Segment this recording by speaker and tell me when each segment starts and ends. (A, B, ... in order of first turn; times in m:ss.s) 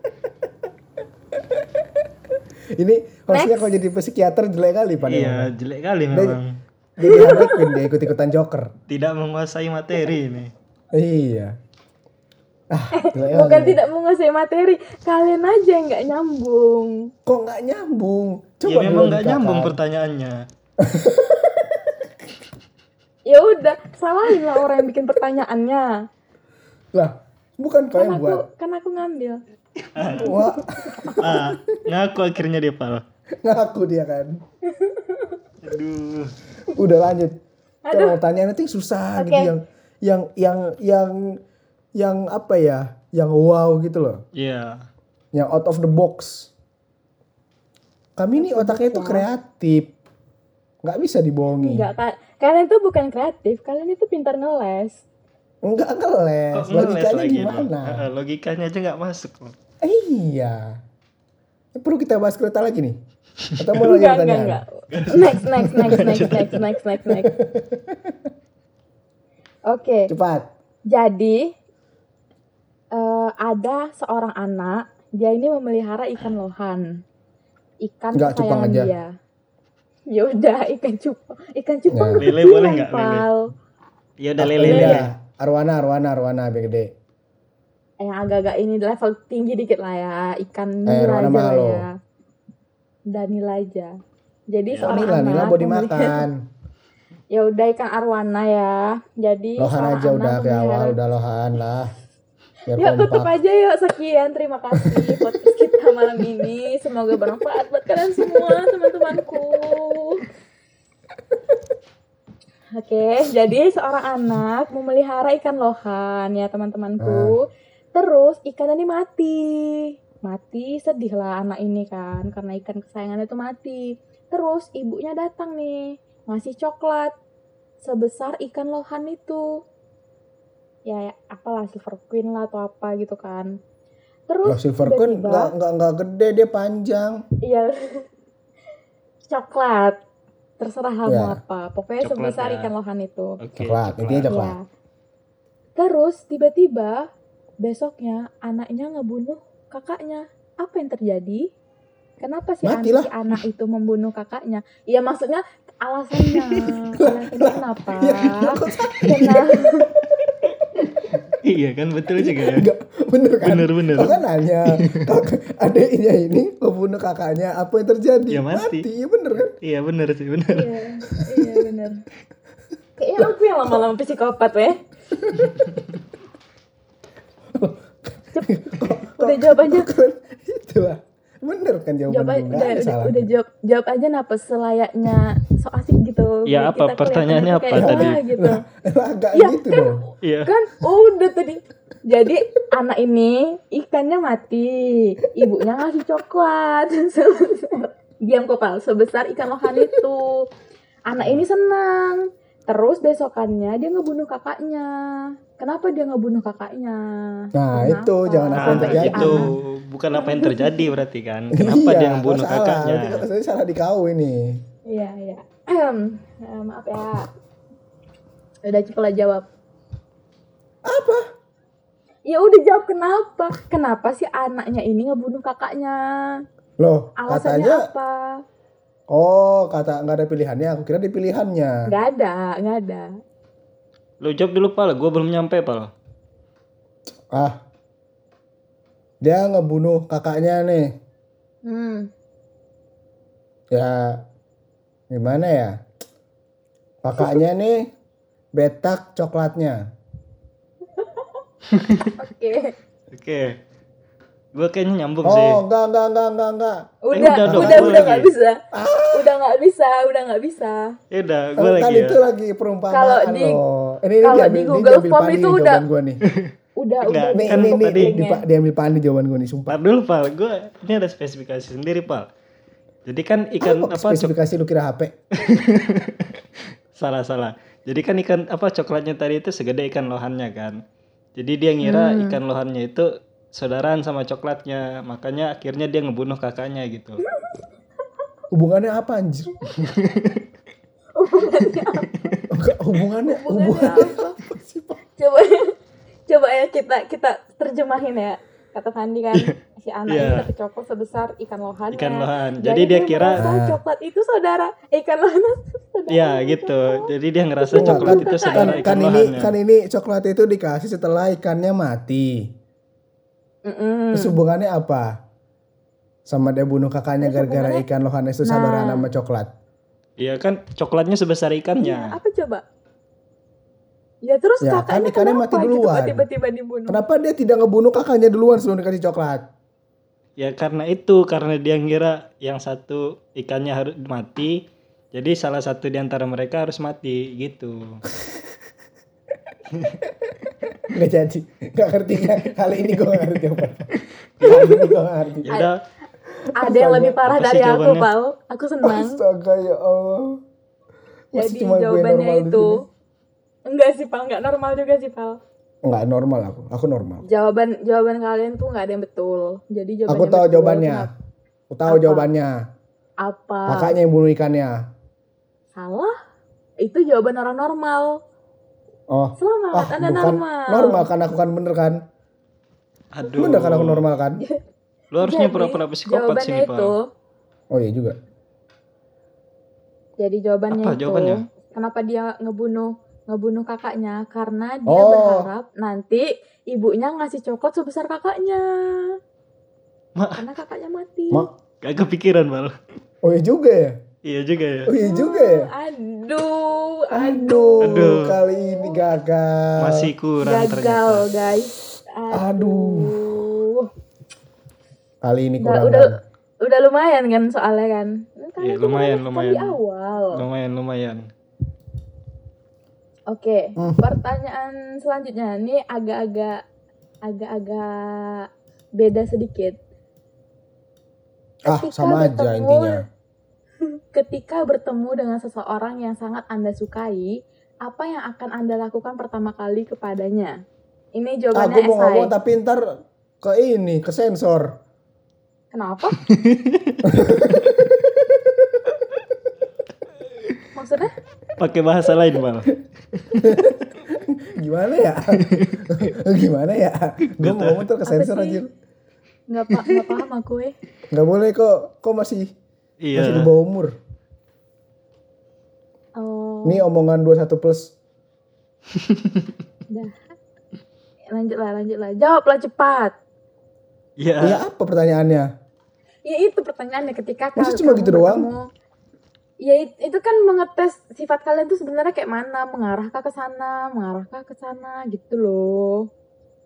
0:02.7-0:05.5 A
0:03.3-0:03.6 B
0:05.0-0:06.6 C
0:06.1-0:06.4 A
0:07.0-0:08.7 A
0:07.0-0:07.8 B
0:08.9-0:10.5 C
0:10.9-0:11.5 A
0:12.7-0:13.8 A
0:12.9-0:17.1 B
0:17.2-0:19.8 A
0:18.6-0:20.4 C
0:20.8-0:21.8 A
0:23.3-0:26.0 B
0:26.9-0:28.4 A
0:27.9-0:29.4 B
0:29.9-0:30.3 C
0:30.2-0:31.7 A
0:30.2-0:31.2 B
0:31.2-0:33.0 C
0:33.4-0:34.4 A
0:34.7-0:35.4 B
0:35.6-0:36.3 C
0:36.7-0:37.4 A
0:37.9-0:38.2 B
0:37.9-0:41.4 A
0:39.2-0:39.5 B
0:42.0-0:44.2 A
0:44.3-0:44.8 C
0:45.3-0:46.5 A
0:48.2-0:49.9 A
0:48.3-0:49.3 B
0:50.8-0:51.9 A
0:51.6-0:55.0 B
0:55.6-0:58.0 A
0:56.5-0:59.5 C
0:59.8-1:00.8 A
1:01.8-1:03.0 A
1:03.6-1:04.6 A
1:03.8-1:07.3 B
1:04.9-1:06.6 C
1:05.9-1:06.2 A
1:07.0-1:08.3 A
1:09.7-1:10.1 B
1:10.1-1:10.5 A
1:10.9-1:11.5 B
1:12.9-1:16.9 B
1:17.8-1:19.1 B
1:18.1-1:18.9 A
1:20.1-1:23.5 B
1:21.9-1:22.4 A
1:22.2-1:23.3 C
1:24.2-1:25.1 C
1:24.4-1:26.9 A
1:24.6-1:25.0 B
1:28.0-1:31.9 B
1:30.8-1:31.8 A
1:33.1-1:33.9 B
1:34.5-1:36.2 B
1:34.7-1:35.1 C
1:34.8-1:36.4 A
1:37.3-1:41.0 B
1:39.6-1:41.9 A
1:42.7-1:43.3 A
1:42.8-1:50.2 B
1:52.7-2:07.1 B
1:57.0-1:57.3 A
2:07.8-2:09.6 B
2:10.8-2:13.5 B
2:14.3-2:15.5 B
2:14.4-2:17.2 A
2:17.4-2:18.0 B
2:19.3-2:20.0 B
2:20.6-2:23.4 B
2:21.1-2:21.4 A
2:22.0-2:22.7 C
2:23.4-2:24.3 C
2:23.6-2:24.6 A
2:24.3-2:24.6 B
2:25.8-2:27.1 B
2:27.6-2:31.5 B
2:32.2-2:39.9 B
2:32.6-2:33.1 A
2:37.0-2:40.3 A
2:41.4-2:42.6 C
2:42.1-2:49.5 A
2:43.4-2:44.2 C
2:44.7-2:45.1 C
2:48.3-2:48.8 C
2:49.6-2:50.7 C
2:50.5-2:52.0 B
2:51.3-2:51.6 A
2:53.0-2:54.8 B
2:57.5-3:03.3 A
2:58.3-2:59.9 B
3:02.1-3:08.6 B
3:06.4-3:08.2 C
3:07.7-3:10.0 A
3:09.3-3:20.4 B
3:10.2-3:10.5 C
3:21.1-3:29.4 B
3:27.5-3:29.5 A
3:28.6-3:33.2 C
3:30.1-3:30.9 B
3:31.5-3:34.6 A
3:34.9-3:37.3 B
3:38.6-3:39.4 B
3:40.8-3:41.2 A
3:42.3-3:46.4 B
3:46.8-3:47.9 A
3:47.2-3:48.4 B
3:49.1-3:51.8 A
3:51.9-3:53.1 B
3:54.2-3:55.9 C
3:57.3-3:57.6 A
3:59.2-4:00.9 A
4:01.6-4:02.1 B
4:03.7-4:04.2 A
4:05.1-4:05.8 A
4:07.0-4:07.9 A
4:08.6-4:09.8 A
4:11.0-4:11.3 B
4:11.7-4:12.1 C
4:12.1-4:12.7 B
4:13.1-4:13.6 C
4:14.5-4:15.6 C
4:15.2-4:18.2 A
4:17.0-4:18.6 B
4:17.1-4:18.3 C
4:18.7-4:19.3 A
4:19.1-4:21.0 B
4:21.1-4:22.2 C
4:21.6-4:26.2 A
4:22.9-4:23.6 B
4:24.2-4:25.8 B
4:26.8-4:28.4 B
4:27.0-4:28.1 C
4:27.3-4:29.8 A
4:29.7-4:32.3 C
4:33.0-4:34.3 C
4:33.6-4:35.1 A
4:35.3-4:36.4 C
4:36.9-4:40.8 C
4:41.4-4:47.2 C
4:41.8-4:42.4 B
4:48.5-4:49.7 A
4:49.8-4:50.4 C
4:51.2-4:52.1 B
4:52.0-4:52.4 C
4:52.5-4:55.0 A
4:53.3-4:54.3 B
4:55.2-4:55.7 B
4:56.3-5:08.9 B
5:00.1-5:00.4 C
5:01.9-5:03.4 C
5:03.4-5:03.8 A
5:06.1-5:09.5 C
5:07.7-5:12.5 A
5:13.6-5:14.4 B
5:14.1-5:15.2 A
5:16.3-5:19.5 A
5:17.2-5:17.8 B
5:18.4-5:19.0 B
5:20.2-5:22.2 C
5:21.8-5:22.6 B
5:24.2-5:27.0 B
5:24.6-5:26.2 A
5:26.9-5:29.4 A
5:30.4-5:38.0 C
5:40.9-5:43.9 A
5:44.4-5:44.9 C
5:44.4-5:45.6 A
5:45.4-5:45.8 C
5:46.6-5:49.2 B
5:46.6-5:47.2 A
5:47.2-5:48.1 C
5:48.8-5:50.4 A
5:51.3-5:52.8 A
5:51.3-5:52.8 B
5:53.7-5:55.4 B
5:55.8-5:57.2 A
5:57.3-6:01.1 B
6:00.1-6:01.1 A
6:01.7-6:02.6 A
6:01.9-6:02.3 B
6:03.2-6:03.9 B
6:03.7-6:04.8 A
6:05.8-6:06.2 B
6:06.8-6:08.2 B
6:09.1-6:12.0 A
6:09.4-6:11.1 B
6:13.1-6:14.0 C
6:13.3-6:14.4 A
6:15.1-6:16.9 C
6:15.2-6:17.1 B
6:17.7-6:18.2 A
6:20.2-6:29.2 B
6:20.7-6:21.4 C
6:24.8-6:25.5 A
6:30.2-6:30.4 C
6:30.4-6:31.5 B
6:31.8-6:32.7 C
6:33.2-6:34.0 A
6:34.2-6:34.9 C
6:34.8-6:35.7 A
6:35.0-6:38.9 B
6:37.1-6:40.1 A
6:37.8-6:38.4 C
6:39.8-6:41.2 C
6:40.4-6:43.9 B
6:42.3-6:43.1 A
6:45.2-6:46.1 A
6:45.6-6:46.1 B
6:46.6-6:50.4 B
6:48.6-6:49.8 C
6:50.3-6:51.2 C
6:53.3-6:56.6 B
6:57.2-6:59.8 B
7:01.6-7:03.0 A
7:01.7-7:03.0 B
7:03.8-7:10.5 B
7:11.1-7:12.3 B
7:11.5-7:12.8 A
7:13.4-7:14.8 A
7:15.7-7:16.2 B
7:16.2-7:17.0 C
7:17.0-7:18.8 A
7:20.7-7:21.1 B
7:21.6-7:23.6 C
7:23.4-7:28.7 A
7:25.3-7:25.9 C
7:27.4-7:27.9 C
7:28.0-7:28.6 B
7:29.5-7:30.7 B
7:31.1-7:32.5 A
7:33.0-7:33.5 C
7:33.1-7:34.0 A
7:36.2-7:36.8 B
7:36.6-7:37.9 A
7:39.0-7:39.4 C
7:39.9-7:40.2 B
7:41.3-7:43.1 B
7:44.2-7:44.6 C
7:44.4-7:45.5 A
7:46.2-7:48.7 B
7:47.6-7:48.5 A
7:49.6-7:56.1 B